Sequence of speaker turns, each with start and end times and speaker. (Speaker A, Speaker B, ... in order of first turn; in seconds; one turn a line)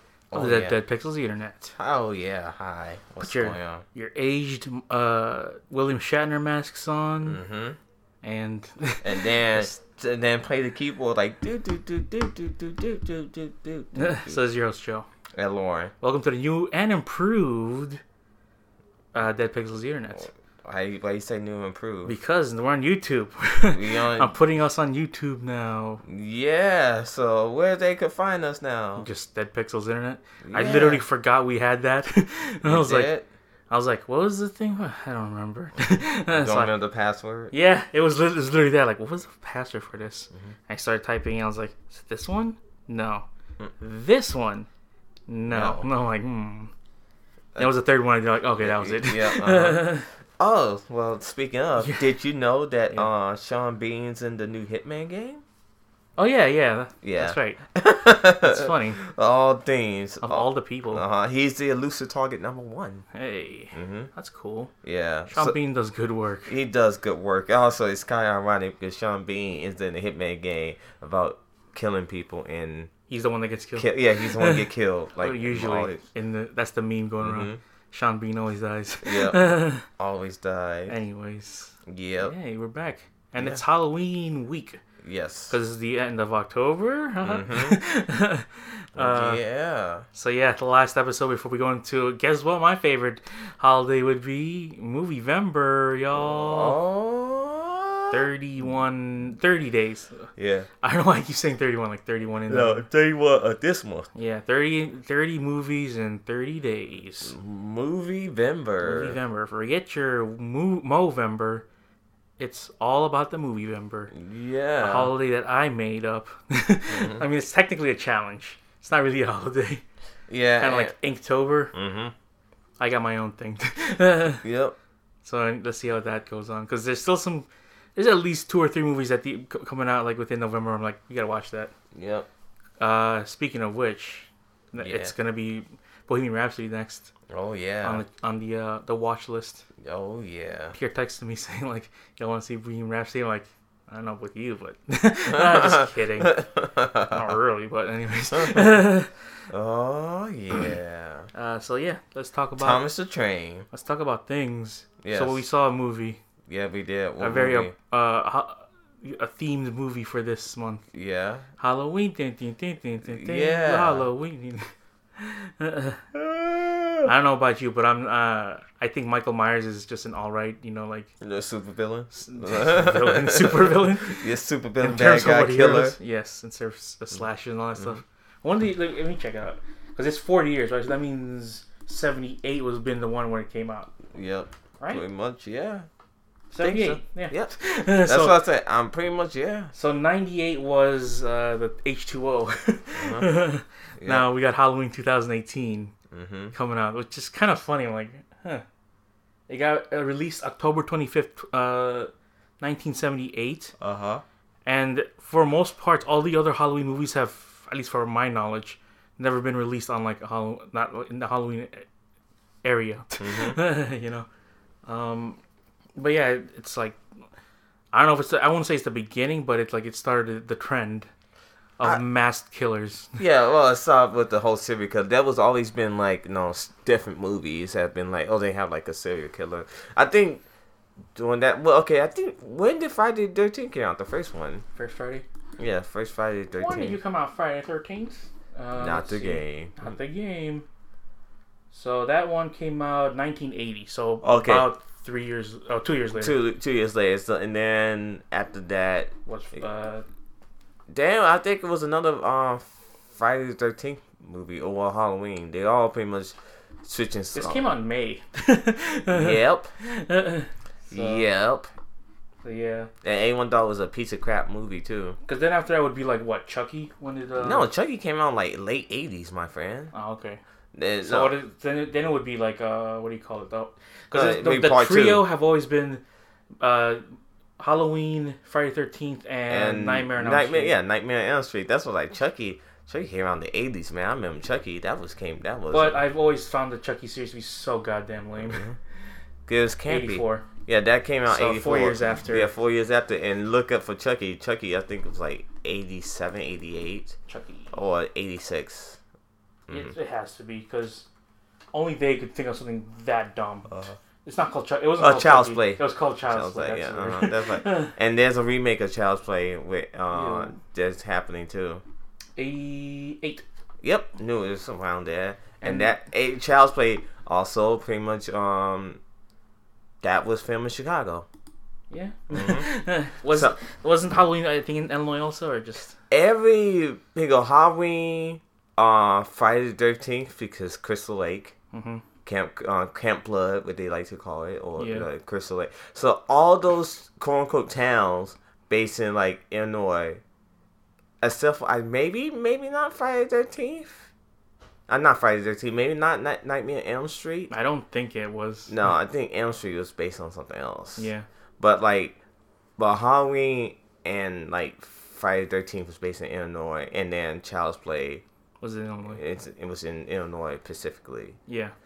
Speaker A: 0.3-0.8
Speaker B: 0.3-1.7
Speaker A: 1.8-3.8
Speaker B: 3.2-7.4
Speaker A: 7.2-7.8
Speaker B: 8.2-9.7
Speaker A: 9.0-14.4
Speaker B: 13.9-15.1
Speaker A: 15.3-15.9
Speaker B: 16.0-18.0
Speaker B: 19.1-20.3
Speaker A: 20.6-22.1
Speaker B: 22.0-26.0
Speaker A: 23.7-24.3
Speaker A: 26.1-29.1
Speaker B: 29.0-33.1
Speaker A: 30.4-31.0
Speaker A: 32.6-33.3
Speaker B: 33.7-36.7
Speaker A: 36.3-37.5
Speaker B: 37.5-43.2
Speaker B: 43.8-44.7
Speaker B: 45.3-46.7
Speaker A: 45.5-45.9
Speaker B: 47.6-50.1
Speaker A: 48.6-55.4
Speaker B: 56.2-57.6
Speaker A: 57.0-63.0
Speaker B: 58.4-59.0
Speaker B: 60.2-61.0
Speaker B: 63.1-64.7
Speaker A: 63.7-64.1
Speaker A: 64.8-65.5
Speaker B: 65.3-66.5
Speaker A: 66.5-72.9
Speaker B: 73.1-79.9
Speaker A: 73.8-76.0
Speaker A: 77.2-77.6
Speaker A: 79.0-81.0
Speaker B: 80.9-84.8
Speaker A: 81.8-82.3
Speaker A: 85.0-85.5
Speaker B: 85.5-89.4
Speaker A: 87.2-87.8
Speaker A: 89.0-90.0
Speaker B: 90.1-96.8
Speaker A: 96.1-98.2
Speaker B: 98.1-100.3
Speaker A: 100.4-100.7
Speaker B: 100.8-102.9
Speaker A: 102.5-104.1
Speaker B: 104.1-107.3
Speaker A: 107.2-109.2
Speaker B: 108.8-111.7
Speaker B: 112.4-114.1
Speaker A: 114.1-115.1
Speaker B: 114.8-119.8
Speaker A: 116.9-117.2
Speaker A: 120.3-120.9
Speaker B: 120.6-121.7
Speaker A: 121.7-122.1
Speaker B: 122.8-124.4
Speaker A: 124.4-124.7
Speaker B: 125.2-131.7
Speaker A: 131.9-132.3
Speaker B: 132.8-137.1
Speaker A: 134.8-135.1
Speaker A: 137.3-138.0
Speaker B: 137.8-139.6
Speaker A: 139.8-140.8
Speaker B: 140.7-146.4
Speaker A: 145.3-147.3
Speaker B: 147.0-149.2
Speaker A: 148.3-148.8
Speaker A: 149.5-151.3
Speaker B: 151.3-152.8
Speaker A: 152.6-153.7
Speaker B: 153.7-156.2
Speaker A: 155.0-155.4
Speaker A: 156.5-157.7
Speaker B: 157.2-160.8
Speaker A: 160.9-161.4
Speaker B: 161.6-166.0
Speaker A: 163.0-164.1
Speaker A: 166.1-167.1
Speaker B: 167.0-171.1
Speaker A: 171.2-176.0
Speaker B: 172.1-174.3
Speaker B: 174.8-184.0
Speaker A: 184.1-185.9
Speaker B: 186.5-188.4
Speaker A: 186.6-189.7
Speaker B: 189.7-195.9
Speaker A: 193.0-193.3
Speaker A: 194.0-194.2
Speaker A: 196.1-196.5
Speaker B: 196.5-198.6
Speaker B: 199.5-203.7
Speaker A: 203.8-204.2
Speaker B: 204.7-211.8
Speaker B: 212.6-214.3
Speaker A: 213.2-213.6
Speaker B: 214.8-215.4
Speaker B: 215.9-217.0
Speaker B: 217.9-221.1
Speaker B: 221.8-223.2
Speaker A: 223.2-230.4
Speaker A: 231.1-234.6
Speaker B: 234.7-235.2
Speaker A: 235.6-237.0
Speaker B: 236.6-240.7
Speaker A: 238.8-239.8
Speaker B: 241.7-246.3
Speaker A: 244.2-244.7
Speaker A: 246.1-249.1
Speaker B: 249.2-250.0
Speaker A: 250.9-257.7
Speaker B: 257.3-261.2
Speaker A: 259.1-259.7
Speaker A: 260.9-261.7
Speaker B: 262.4-262.9
Speaker A: 263.0-265.1
Speaker B: 265.2-267.7
Speaker A: 267.4-269.9
Speaker B: 269.9-270.4
Speaker A: 270.7-271.3
Speaker B: 271.0-276.0
Speaker A: 274.1-275.2
Speaker B: 276.6-280.7
Speaker A: 279.5-286.0
Speaker B: 285.7-288.7
Speaker A: 288.4-288.7
Speaker A: 289.5-297.1
Speaker B: 289.9-290.4
Speaker B: 291.3-292.5
Speaker B: 297.3-297.8
Speaker A: 297.7-299.0
Speaker A: 299.7-299.9
Speaker B: 299.7-301.1
Speaker B: 301.7-303.7
Speaker A: 303.7-303.9
Speaker B: 304.2-307.9
Speaker A: 305.0-311.8
Speaker B: 310.1-310.6
Speaker B: 312.4-313.4
Speaker A: 313.8-319.0
Speaker B: 315.6-316.0
Speaker A: 320.0-321.2
Speaker B: 321.9-326.0
Speaker A: 322.3-322.7
Speaker A: 323.3-323.5
Speaker A: 326.1-331.5
Speaker B: 331.7-332.0
Speaker A: 332.2-340.2
Speaker B: 334.8-335.1
Speaker A: 341.2-344.1
Speaker A: 344.9-347.5
Speaker B: 347.5-348.8
Speaker A: 348.7-351.1
Speaker B: 351.0-351.2
Speaker A: 351.6-352.1
Speaker A: 352.8-358.2
Speaker B: 358.6-359.2
Speaker A: 359.1-361.4
Speaker B: 361.5-361.7